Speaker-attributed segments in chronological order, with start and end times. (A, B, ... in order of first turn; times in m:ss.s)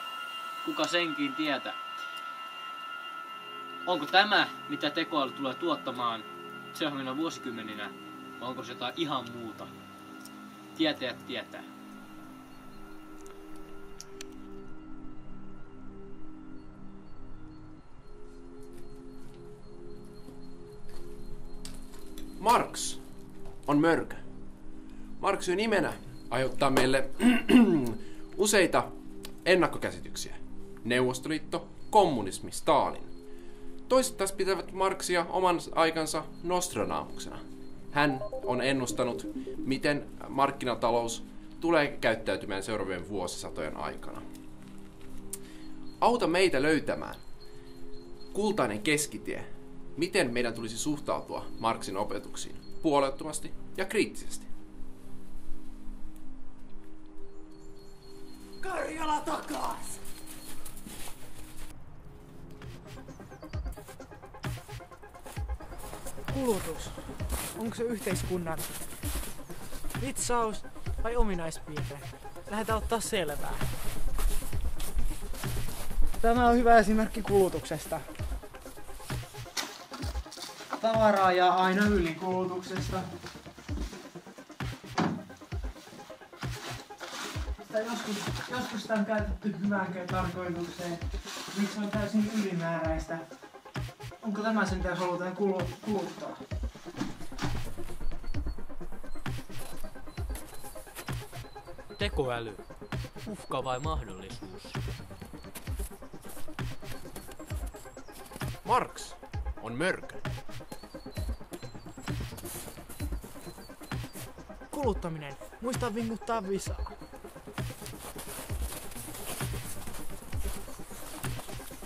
0:00.6-0:01.8 A
0:03.8-0:09.7 A
0:10.7-0:11.7 A
0:22.4-0:23.0 B
0:23.6-0:24.2 B
0:25.2-0:28.9 B
0:29.4-0:33.1 B
0:33.9-0:44.2 B
0:46.0-0:47.2 B
0:48.3-0:54.5 B
0:58.6-1:00.0 C
1:06.3-1:08.8 C
1:10.0-1:13.7 C
1:16.2-1:18.1 C
1:20.7-1:23.1 C
1:27.6-1:33.3 C
1:34.2-1:36.4 C
1:42.0-1:42.6 A
1:43.2-1:44.8 A
1:48.6-1:50.2 B
1:54.7-1:56.9 C